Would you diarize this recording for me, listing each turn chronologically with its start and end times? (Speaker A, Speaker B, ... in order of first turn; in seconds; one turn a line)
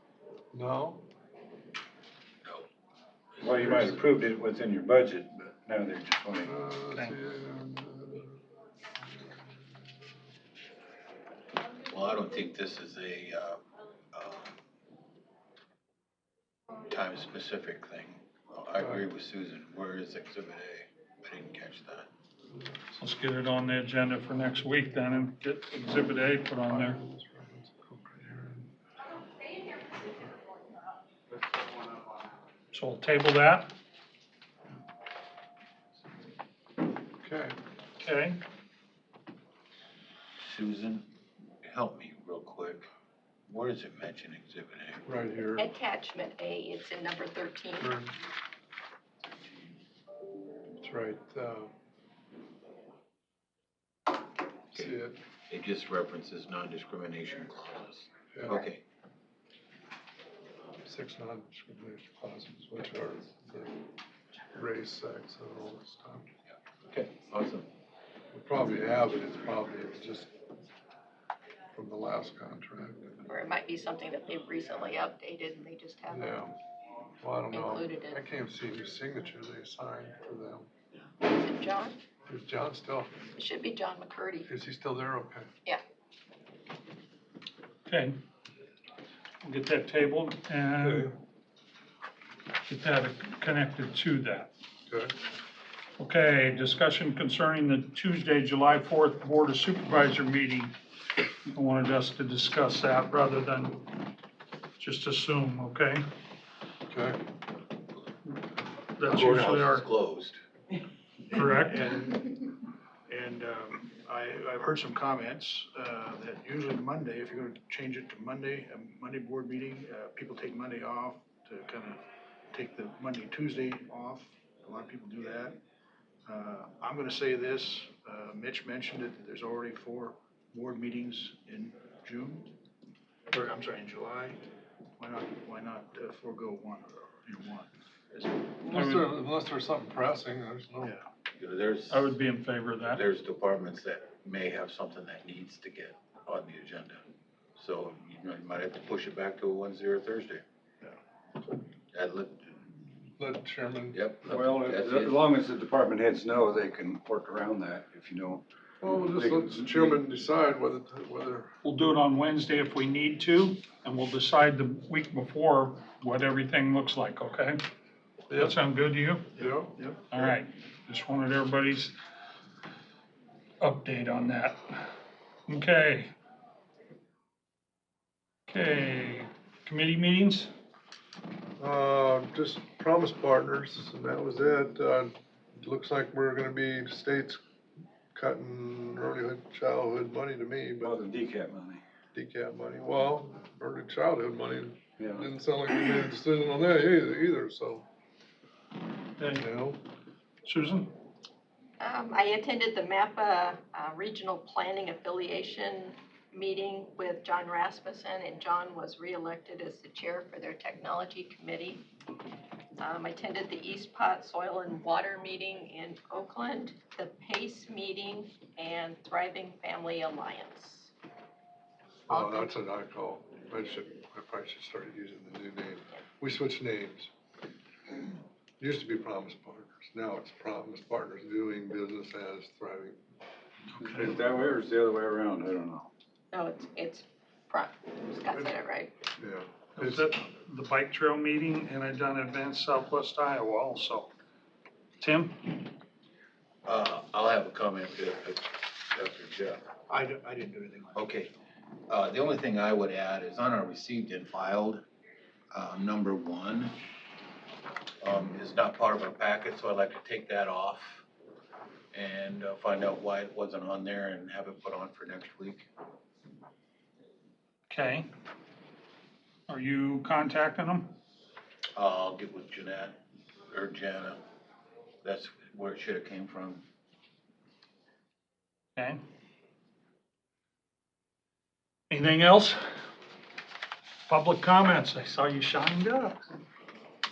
Speaker A: 0.5-1.0
Speaker B: 3.4-6.5
Speaker C: 3.4-3.8
Speaker A: 3.6-4.0
Speaker A: 6.4-8.4
Speaker C: 11.9-13.6
Speaker C: 14.1-14.6
Speaker C: 16.9-22.1
Speaker D: 22.9-27.0
Speaker A: 26.7-28.7
Speaker D: 32.7-33.7
Speaker A: 37.2-37.6
Speaker D: 38.0-38.4
Speaker C: 40.4-41.1
Speaker C: 41.6-42.9
Speaker C: 43.5-45.0
Speaker A: 45.1-45.7
Speaker E: 45.6-47.9
Speaker A: 47.8-48.1
Speaker A: 50.8-51.7
Speaker A: 54.7-55.2
Speaker C: 55.5-58.8
Speaker A: 58.3-58.6
Speaker A: 60.9-63.8
Speaker A: 64.5-66.3
Speaker C: 66.9-67.7
Speaker A: 68.3-70.3
Speaker A: 71.8-73.2
Speaker E: 73.3-76.4
Speaker A: 76.1-76.5
Speaker A: 77.2-80.7
Speaker E: 77.5-78.2
Speaker E: 81.2-82.0
Speaker A: 82.3-83.1
Speaker E: 83.4-84.5
Speaker A: 84.5-85.5
Speaker D: 87.9-88.2
Speaker D: 89.4-91.1
Speaker A: 90.8-91.1
Speaker D: 92.7-94.5
Speaker A: 94.9-95.1
Speaker D: 96.0-100.7
Speaker D: 101.5-103.9
Speaker D: 104.8-106.0
Speaker A: 106.9-107.2
Speaker D: 109.0-109.9
Speaker C: 109.0-110.4
Speaker D: 111.3-111.8
Speaker F: 111.4-112.3
Speaker F: 113.1-122.0
Speaker F: 122.5-125.6
Speaker F: 126.3-132.5
Speaker F: 133.3-134.4
Speaker F: 135.0-137.7
Speaker A: 138.7-140.9
Speaker D: 138.7-139.1
Speaker C: 141.4-142.1
Speaker D: 141.9-143.0
Speaker C: 142.9-147.0
Speaker C: 147.6-150.4
Speaker C: 151.9-152.8
Speaker A: 153.2-154.5
Speaker C: 153.9-155.2
Speaker B: 154.3-160.0
Speaker A: 158.8-161.5
Speaker D: 161.6-167.6
Speaker A: 168.3-168.6
Speaker D: 168.3-169.3
Speaker A: 169.4-170.4
Speaker D: 170.1-171.9
Speaker D: 173.6-174.6
Speaker D: 175.5-176.1
Speaker D: 178.5-180.5
Speaker A: 181.6-187.4
Speaker A: 188.1-191.0
Speaker B: 190.8-191.8
Speaker A: 192.1-197.8
Speaker B: 195.0-195.3
Speaker D: 199.2-199.4
Speaker A: 199.3-199.8
Speaker D: 200.4-200.9
Speaker E: 201.8-211.9
Speaker E: 212.8-220.9
Speaker A: 222.1-227.1
Speaker E: 222.1-222.5
Speaker A: 228.6-233.0
Speaker B: 233.8-235.9
Speaker D: 233.8-234.1
Speaker E: 236.3-238.9
Speaker A: 239.2-240.1
Speaker D: 239.8-244.1
Speaker D: 245.0-245.5
Speaker C: 246.7-249.6
Speaker F: 249.9-251.0
Speaker C: 250.9-251.3
Speaker C: 251.9-254.8
Speaker C: 255.5-256.8
Speaker C: 258.0-261.1
Speaker C: 261.9-265.7
Speaker D: 267.7-268.1
Speaker D: 269.5-270.9
Speaker C: 271.8-273.0
Speaker C: 273.5-274.2
Speaker C: 275.0-276.6
Speaker D: 278.8-279.0
Speaker D: 281.9-282.6
Speaker D: 284.1-286.2